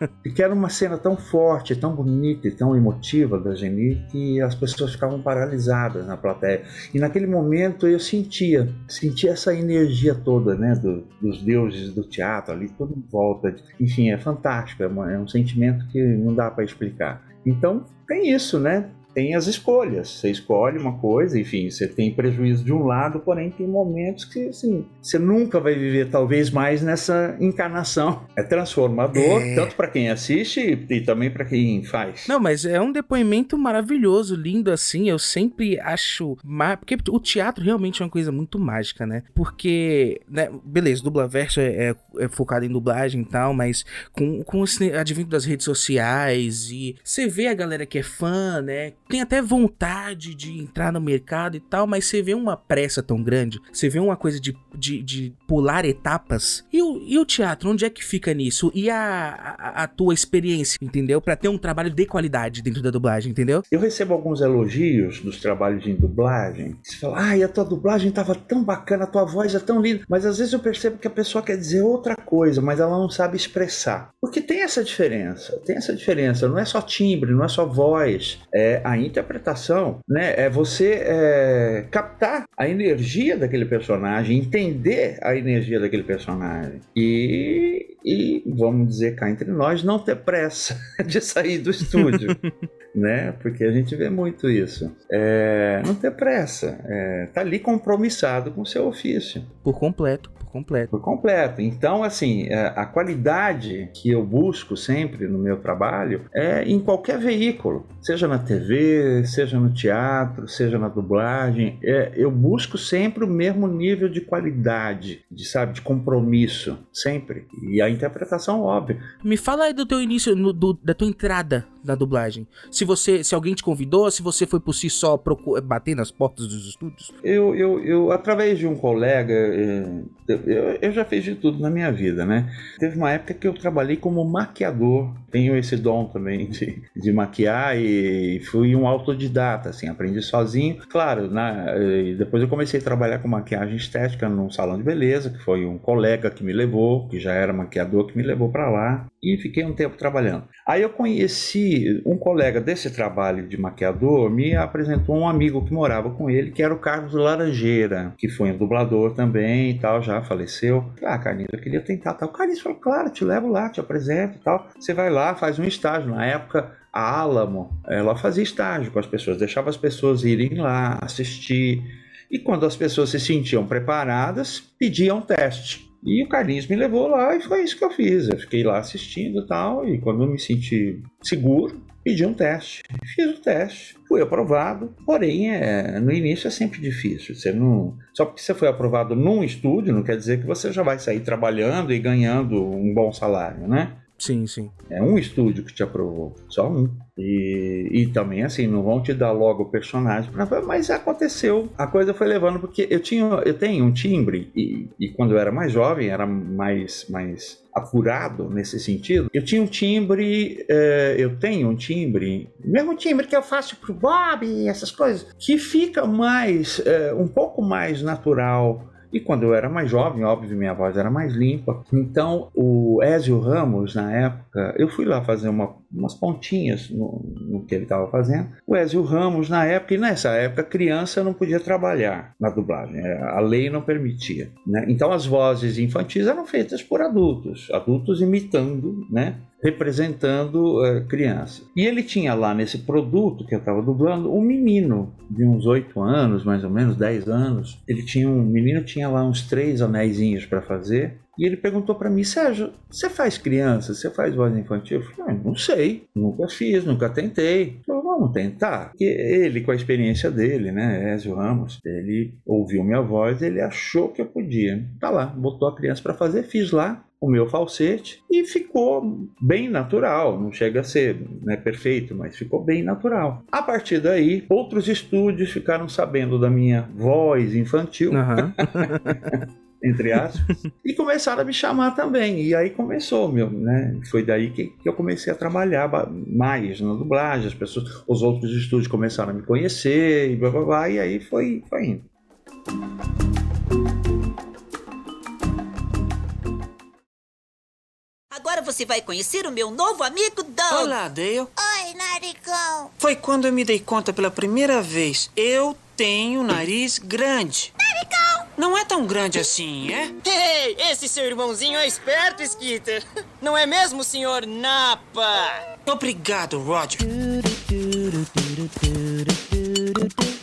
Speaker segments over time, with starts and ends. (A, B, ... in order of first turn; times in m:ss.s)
0:00.2-0:32.3 A
0:29.1-0:29.7 B
0:32.3-1:03.6 B
1:03.7-1:32.4 A
1:31.9-1:32.5 B
1:32.9-1:39.5 A
1:39.6-1:40.9 B
1:40.9-1:59.1 A
1:59.2-2:07.1 B
2:07.2-3:14.0 A
3:14.2-3:14.7 B
3:14.9-4:52.0 A
4:38.1-4:39.3 B
4:58.3-5:00.9 C
5:00.7-5:01.5 D
5:01.6-5:02.9 C
5:03.0-5:07.7 D
5:07.8-5:08.4 C
5:08.6-5:10.1 D
5:10.2-5:15.6 E
5:15.8-5:17.1 D